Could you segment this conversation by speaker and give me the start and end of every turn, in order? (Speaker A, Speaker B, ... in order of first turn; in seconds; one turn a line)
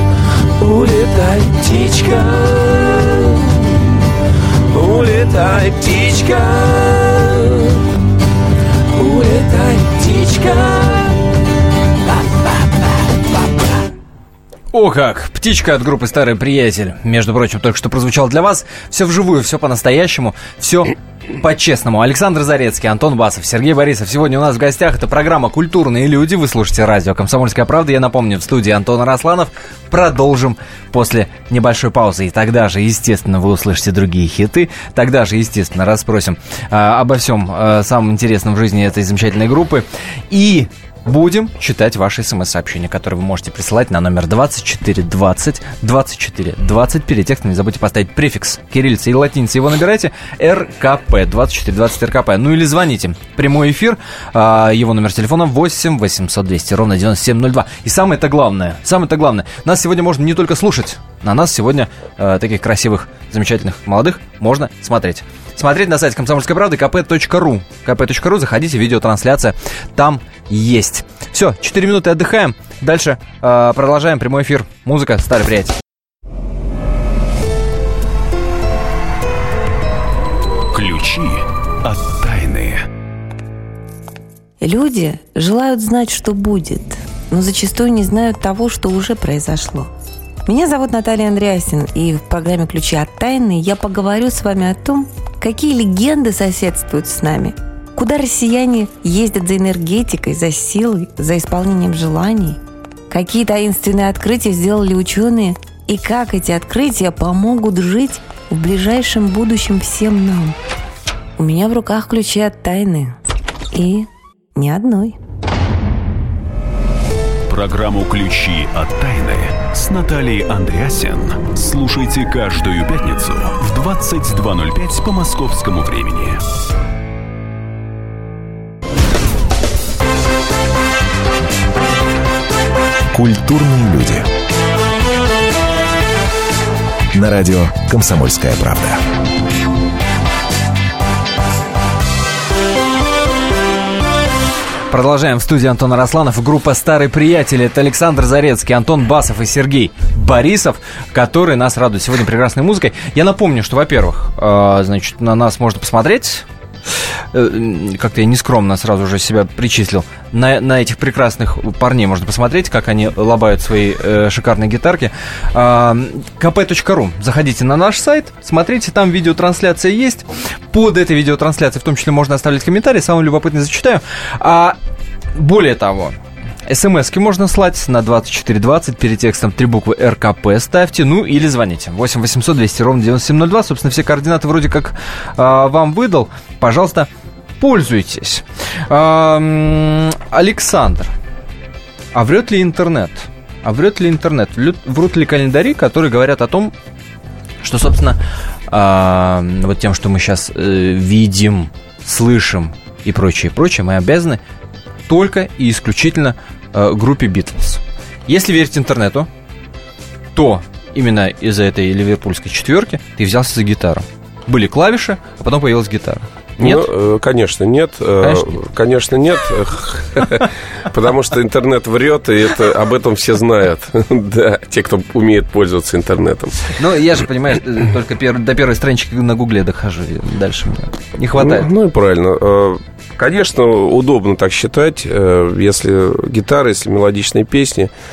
Speaker A: 0.6-3.7
Speaker A: 4.7-7.8
Speaker A: 8.9-11.2
Speaker A: 12.1-13.6
Speaker B: 14.7-75.8
Speaker C: 80.7-82.8
Speaker D: 84.6-89.9
Speaker D: 90.5-102.6
Speaker D: 103.1-110.5
Speaker D: 111.4-113.2
Speaker D: 113.7-115.2
Speaker C: 117.5-126.4
Speaker E: 133.1-134.3
Speaker E: 137.1-139.0
Speaker B: 144.9-156.4
Speaker B: 157.3-174.8
Speaker B: 175.3-176.2
Speaker B: 176.7-191.1
Speaker B: 192.2-196.7
Speaker B: 197.6-204.4
Speaker B: 205.1-209.3
Speaker B: 210.3-216.9
Speaker A: 216.6-226.7
Speaker B: 218.2-218.6
Speaker B: 226.7-231.7
Speaker A: 231.3-237.9